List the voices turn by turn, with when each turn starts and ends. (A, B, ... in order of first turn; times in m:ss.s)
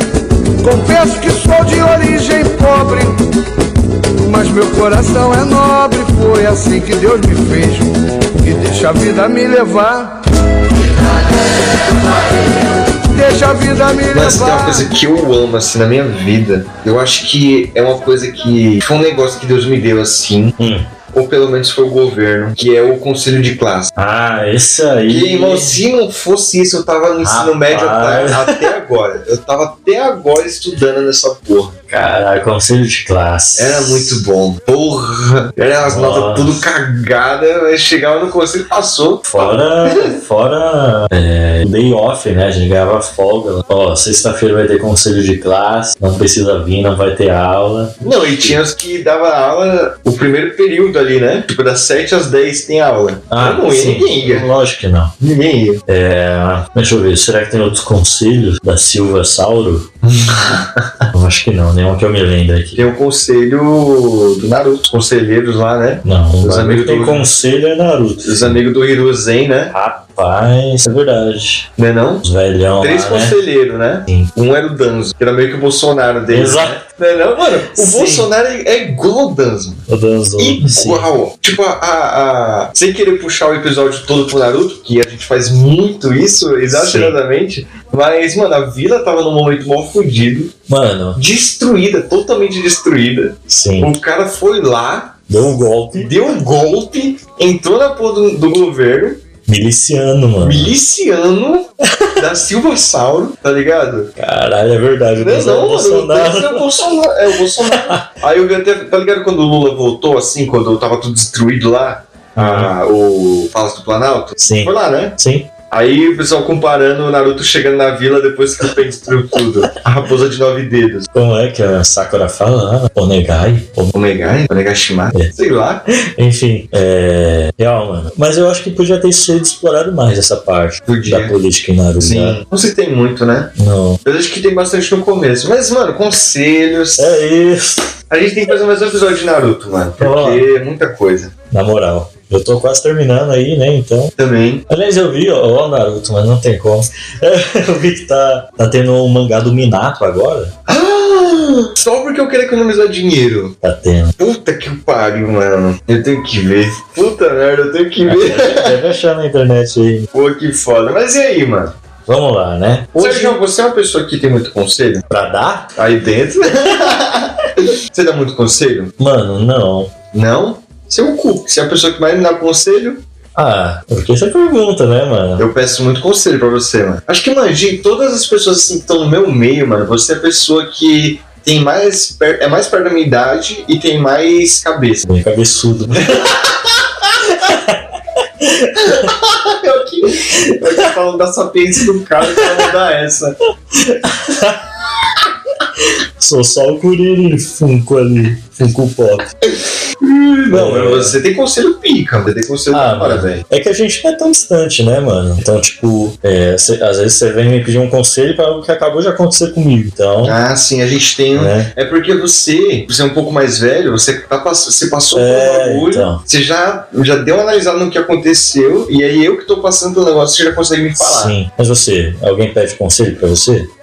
0:00.6-0:03.2 A
0:04.2-0:10.2 A
0:13.1-0:14.9 A
0:14.1-0:20.6 B
0:20.6-0:20.9 C
0:21.1-0:23.9 B
0:24.0-0:25.8 C
0:25.1-0:32.2 B
0:27.2-0:28.7 C
0:31.9-0:34.2 C
0:33.6-0:40.2 B
0:35.8-0:36.7 C
0:39.3-0:48.6 C
0:48.0-0:54.5 B
0:53.3-0:55.1 C
0:55.2-0:55.8 B
0:55.9-0:59.9 C
1:00.0-1:01.0 B
1:01.1-1:02.9 C
1:02.8-1:07.3 B
1:06.0-1:08.6 C
1:08.2-1:09.8 B
1:09.7-1:11.7 C
1:11.8-1:12.3 B
1:12.2-1:13.4 C
1:12.8-1:30.5 B
1:16.3-1:16.8 C
1:17.7-1:18.3 C
1:19.9-1:21.1 C
1:26.7-1:27.2 C
1:30.7-1:31.2 C
1:31.2-1:35.2 B
1:33.5-1:34.0 C
1:35.3-1:36.1 C
1:36.0-1:39.2 B
1:39.5-1:40.8 C
1:40.4-1:44.1 B
1:44.2-1:46.7 C
1:45.2-1:55.2 B
1:47.6-1:48.1 C
1:52.4-1:52.7 C
1:54.4-1:55.5 C
1:55.7-2:01.1 B
2:01.1-2:03.9 C
2:03.9-2:05.9 B
2:05.9-2:12.4 C
2:10.9-2:11.4 B
2:12.0-2:13.5 B
2:13.6-2:14.0 C
2:14.0-2:17.2 B
2:17.0-2:17.9 C
2:18.1-2:21.3 B
2:20.0-2:20.5 C
2:21.5-2:24.1 C
2:24.2-2:24.6 B
2:24.7-2:30.6 C
2:30.7-2:33.6 B
2:33.6-2:34.2 C
2:34.2-2:38.8 B
2:38.0-2:40.1 C
2:40.1-2:41.7 B
2:42.1-2:43.4 C
2:42.9-2:45.1 B
2:45.1-2:45.8 C
2:45.8-2:48.9 B
2:49.0-2:49.9 C
2:50.1-2:53.0 B
2:53.4-2:55.5 C
2:55.4-3:05.1 B
3:05.1-3:06.4 C
3:05.9-3:06.7 B
3:07.2-3:09.1 C
3:08.8-3:13.4 B
3:12.2-3:12.7 C
3:13.7-3:14.6 C
3:15.8-3:19.3 C
3:20.0-3:23.4 B
3:20.5-3:21.2 C
3:22.7-3:30.4 C
3:30.2-3:41.4 B
3:31.3-3:31.7 C
3:35.2-3:36.2 C
3:41.0-3:43.7 C